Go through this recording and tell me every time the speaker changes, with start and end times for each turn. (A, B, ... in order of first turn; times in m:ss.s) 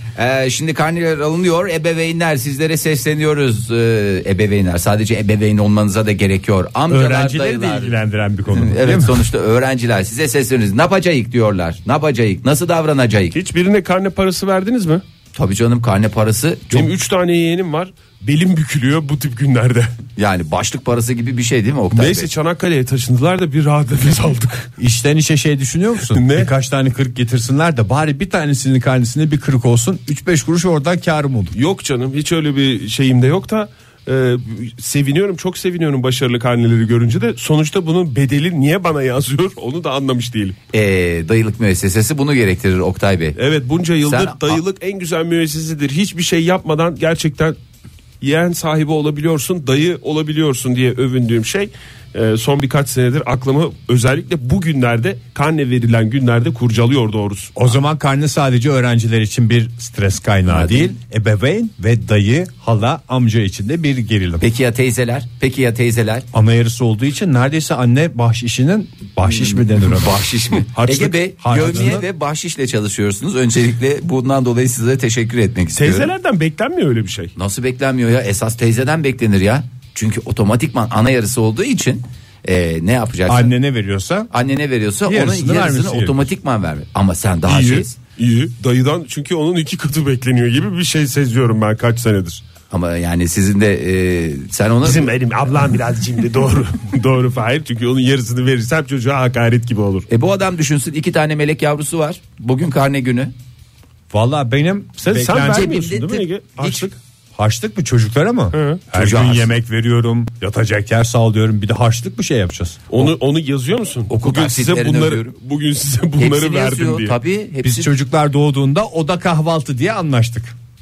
0:00.2-0:08.0 A
0:06.9-0:09.3 B
0:08.5-0:13.4 A
0:13.3-0:15.0 C
0:15.4-0:16.9 A
0:16.7-0:19.9 C
0:20.2-0:22.3 A
0:21.9-0:24.7 C
0:24.8-0:31.5 B
0:26.1-0:26.5 C
0:31.5-0:40.6 C
0:40.7-0:43.4 A
0:43.4-0:47.6 C
0:44.0-0:44.6 A
0:48.2-0:57.5 C
0:57.5-1:04.4 B
1:00.5-1:00.9 A
1:04.4-1:06.2 A
1:06.3-1:10.2 B
1:09.2-1:16.1 A
1:10.7-1:11.2 C
1:11.4-1:12.0 B
1:15.8-1:17.3 C
1:17.4-1:23.5 A
1:23.3-1:24.3 B
1:24.3-1:27.9 A
1:25.1-1:26.3 B
1:27.5-1:32.4 C
1:32.7-1:35.1 A
1:34.8-1:40.1 C
1:40.1-1:43.3 A
1:44.1-1:45.9 B
1:45.0-1:47.0 C
1:45.5-1:46.9 A
1:47.4-1:53.1 B
1:48.5-1:48.8 C
1:48.9-1:49.5 A
1:52.9-1:57.2 C
1:54.1-1:55.4 A
1:56.2-1:57.9 A
1:57.6-2:00.5 B